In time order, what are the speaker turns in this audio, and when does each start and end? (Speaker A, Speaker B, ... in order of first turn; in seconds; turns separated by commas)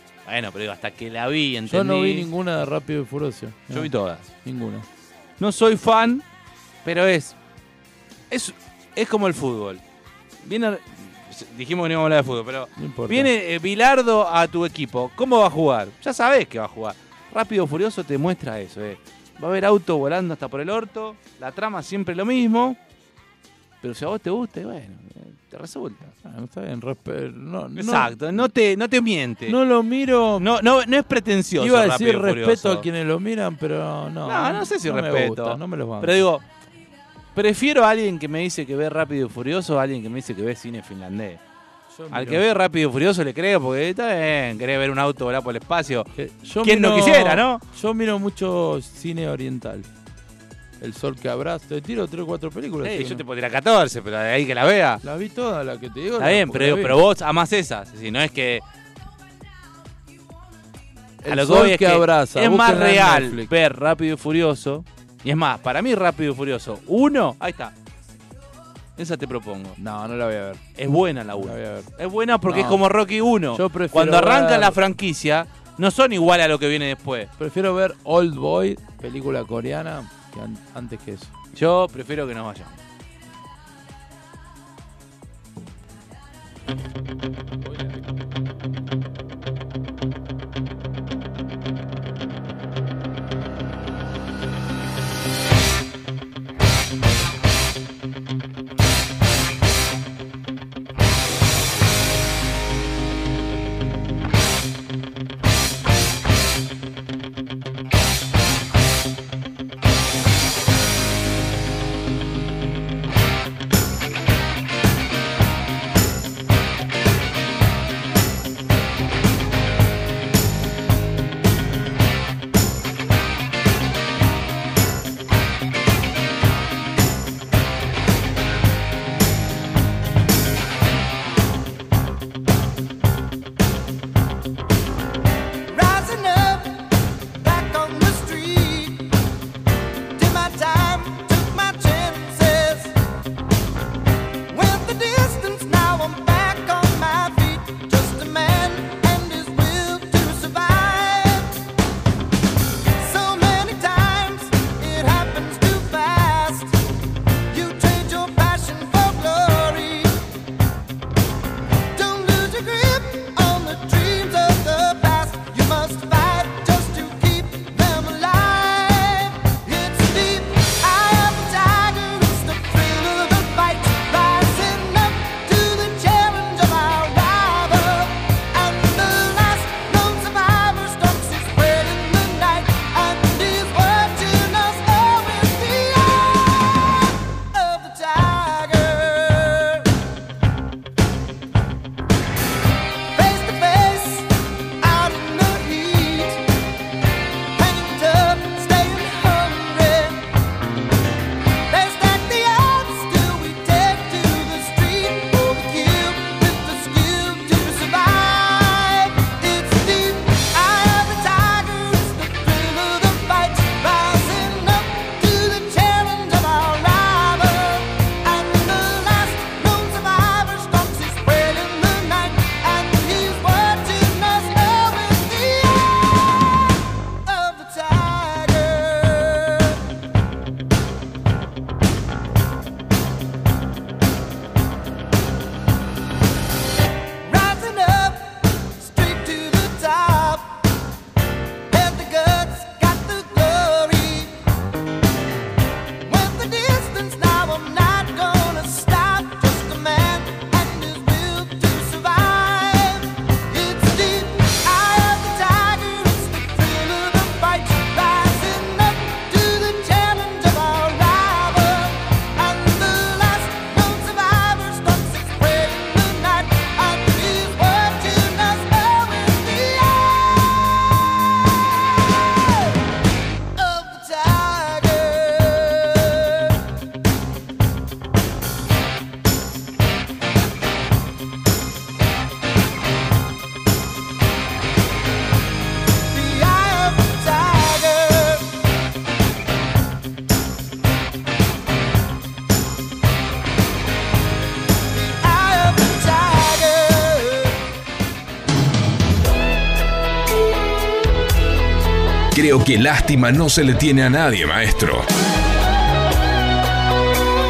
Speaker A: 0.3-2.3, Speaker B: 1.7-3.9, Speaker A: 3.7-4.3, Speaker B: 4.4-4.9, Speaker A: 5.4-6.2, Speaker A: 6.8-7.4, Speaker A: 8.3-9.8, Speaker A: 10.4-22.8, Speaker B: 12.8-13.3, Speaker A: 23.8-26.1, Speaker B: 26.2-28.5, Speaker A: 27.8-29.6, Speaker B: 29.5-30.4, Speaker A: 30.4-32.9, Speaker B: 31.6-36.3, Speaker A: 34.2-36.4, Speaker A: 37.4-41.4, Speaker B: 41.9-42.4, Speaker A: 42.1-46.1, Speaker B: 46.2-49.9, Speaker A: 46.6-47.6, Speaker B: 50.8-53.2, Speaker A: 52.8-55.0, Speaker B: 55.0-57.0, Speaker A: 56.2-58.6, Speaker B: 61.2-63.5, Speaker A: 61.3-67.7, Speaker A: 69.0-69.8, Speaker B: 69.8-70.6, Speaker A: 70.8-77.3, Speaker B: 71.4-71.9, Speaker B: 72.5-72.8, Speaker B: 73.5-74.8, Speaker B: 77.4-81.3, Speaker A: 81.5-82.8, Speaker C: 135.7-139.2, Speaker C: 140.2-142.9, Speaker C: 144.5-151.6, Speaker C: 153.0-156.8, Speaker C: 157.5-160.2, Speaker C: 161.9-189.9, Speaker C: 193.1-196.4, Speaker C: 197.6-200.3, Speaker C: 201.7-226.6, Speaker C: 227.3-229.8, Speaker C: 237.2-240.6, Speaker C: 241.7-244.3, Speaker C: 246.0-270.9, Speaker C: 272.2-272.7, Speaker C: 273.6-276.6, Speaker C: 286.1-288.5, Speaker C: 294.9-297.5, Speaker D: 302.3-305.1